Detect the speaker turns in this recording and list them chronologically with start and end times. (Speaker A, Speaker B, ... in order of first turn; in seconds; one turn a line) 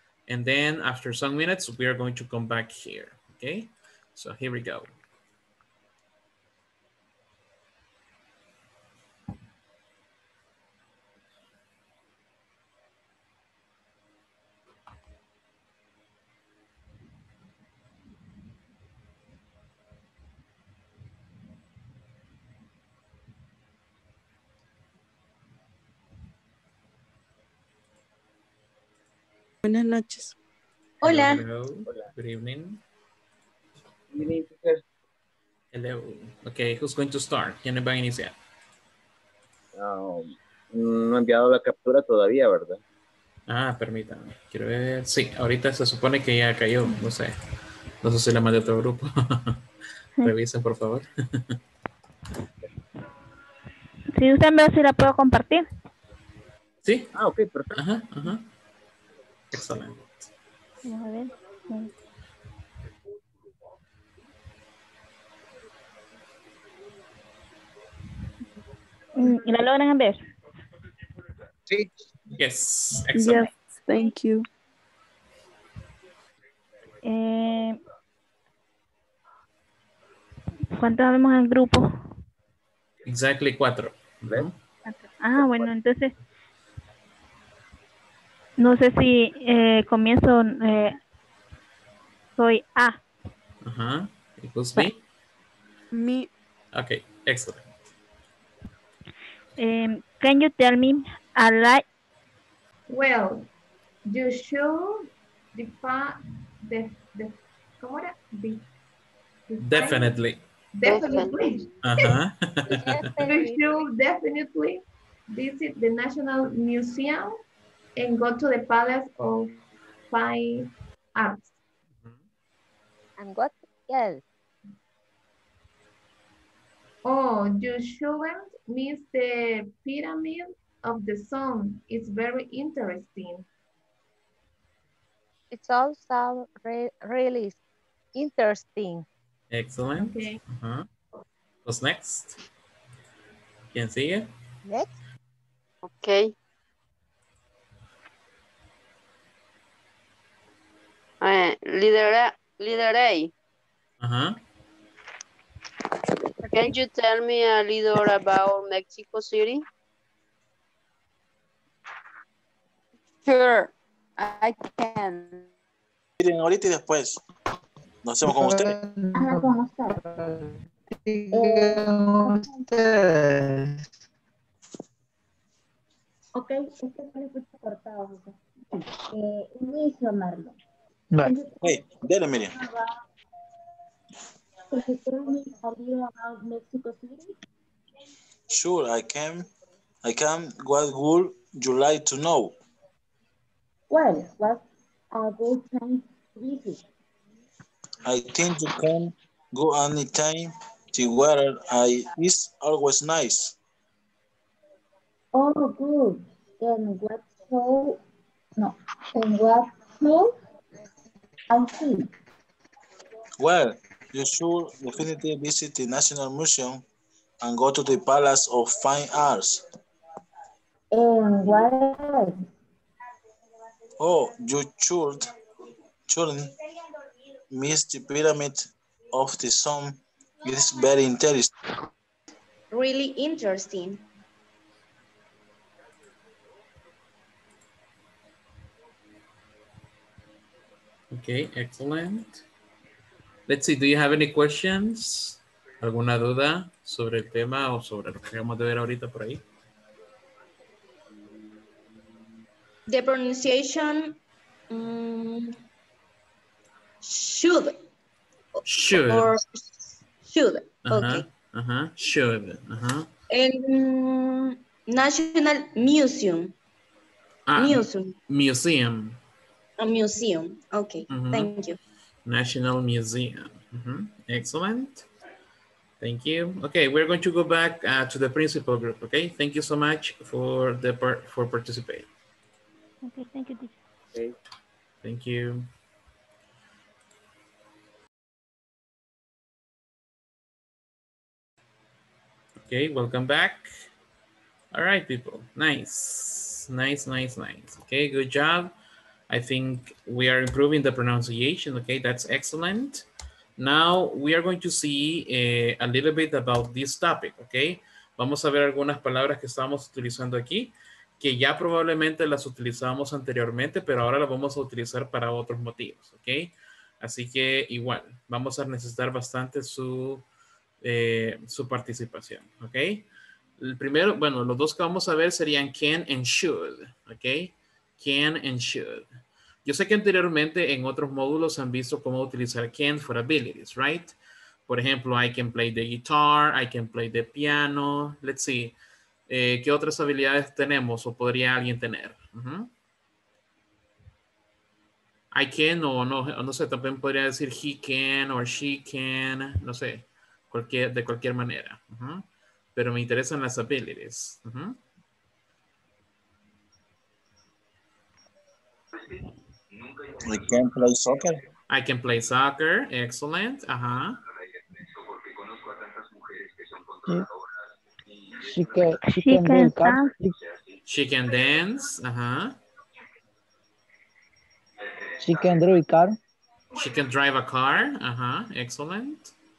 Speaker A: 0.3-4.9
Speaker B: 29.6-30.3
Speaker C: 31.0-31.4
Speaker A: 31.0-32.8
Speaker D: 34.1-34.8
Speaker A: 35.7-38.3
Speaker D: 39.8-42.8
Speaker A: 43.5-47.3
Speaker A: 48.0-49.6
Speaker A: 50.2-51.6
Speaker E: 54.2-55.6
Speaker A: 56.8-57.1
Speaker D: 57.1-57.8
Speaker A: 57.7-58.4
Speaker A: 59.5-60.2
Speaker E: 60.8-61.9
Speaker E: 69.1-70.2
Speaker A: 72.3-73.5
Speaker B: 73.1-74.4
Speaker E: 77.0-77.8
Speaker E: 80.8-81.8
Speaker A: 83.1-84.5
Speaker E: 85.2-86.1
Speaker E: 88.6-91.0
Speaker E: 92.4-93.0
Speaker A: 93.6-95.0
Speaker B: 95.9-96.3
Speaker A: 96.7-97.7
Speaker E: 99.6-101.8
Speaker F: 102.9-103.5
Speaker F: 104.1-108.6
Speaker F: 109.5-110.2
Speaker A: 109.6-110.4
Speaker F: 110.7-111.7
Speaker G: 110.8-111.3
Speaker A: 111.8-113.0
Speaker H: 112.7-113.6
Speaker F: 113.3-117.4
Speaker F: 118.0-119.6
Speaker F: 120.1-121.5
Speaker H: 123.2-124.2
Speaker F: 127.0-133.4
Speaker H: 135.5-137.6
Speaker H: 138.1-139.1
Speaker A: 139.5-140.9
Speaker F: 140.0-140.4
Speaker A: 141.6-142.4
Speaker A: 143.7-144.3
Speaker H: 144.7-144.9
Speaker G: 145.8-146.3
Speaker G: 151.2-153.3
Speaker A: 154.0-154.4
Speaker G: 156.4-159.6
Speaker I: 163.2-165.3
Speaker J: 166.2-167.2
Speaker J: 168.0-168.7
Speaker K: 168.2-173.8
Speaker L: 169.1-170.0
Speaker L: 171.3-172.6
Speaker L: 176.3-180.5
Speaker L: 181.2-181.7
Speaker J: 181.6-182.5
Speaker L: 182.5-182.8
Speaker L: 184.7-187.3
Speaker J: 188.5-189.5
Speaker J: 190.0-192.6
Speaker L: 193.9-196.8
Speaker J: 198.0-203.5
Speaker L: 205.3-208.0
Speaker L: 208.6-210.3
Speaker L: 211.5-212.1
Speaker J: 213.4-216.8
Speaker J: 217.4-219.6
Speaker L: 220.9-222.4
Speaker J: 224.0-225.3
Speaker J: 226.1-226.5
Speaker J: 227.5-231.5
Speaker C: 232.7-234.0
Speaker A: 241.1-242.4
Speaker A: 243.5-249.4
Speaker C: 252.9-254.2
Speaker C: 254.7-255.5
Speaker C: 257.0-257.8
Speaker A: 258.6-259.3
Speaker C: 258.9-261.2
Speaker A: 260.8-263.1
Speaker C: 263.3-266.5
Speaker A: 267.5-269.2
Speaker C: 267.6-268.1
Speaker C: 269.8-271.8
Speaker A: 271.1-271.5
Speaker A: 272.2-275.1
Speaker A: 276.0-282.1
Speaker E: 283.0-283.7
Speaker A: 285.0-285.7
Speaker A: 292.6-293.7
Speaker A: 294.7-298.7
Speaker A: 299.3-303.1
Speaker A: 303.6-320.2
Speaker A: 320.8-323.1
Speaker A: 323.6-329.1
Speaker A: 329.6-334.1
Speaker A: 334.7-338.8
Speaker A: 339.3-342.7
Speaker A: 345.3-354.8
Speaker J: 360.2-361.4
Speaker A: 361.7-364.2
Speaker K: 368.4-370.4
Speaker E: 369.0-370.1
Speaker A: 370.9-372.6
Speaker K: 375.2-376.2
Speaker A: 376.8-379.3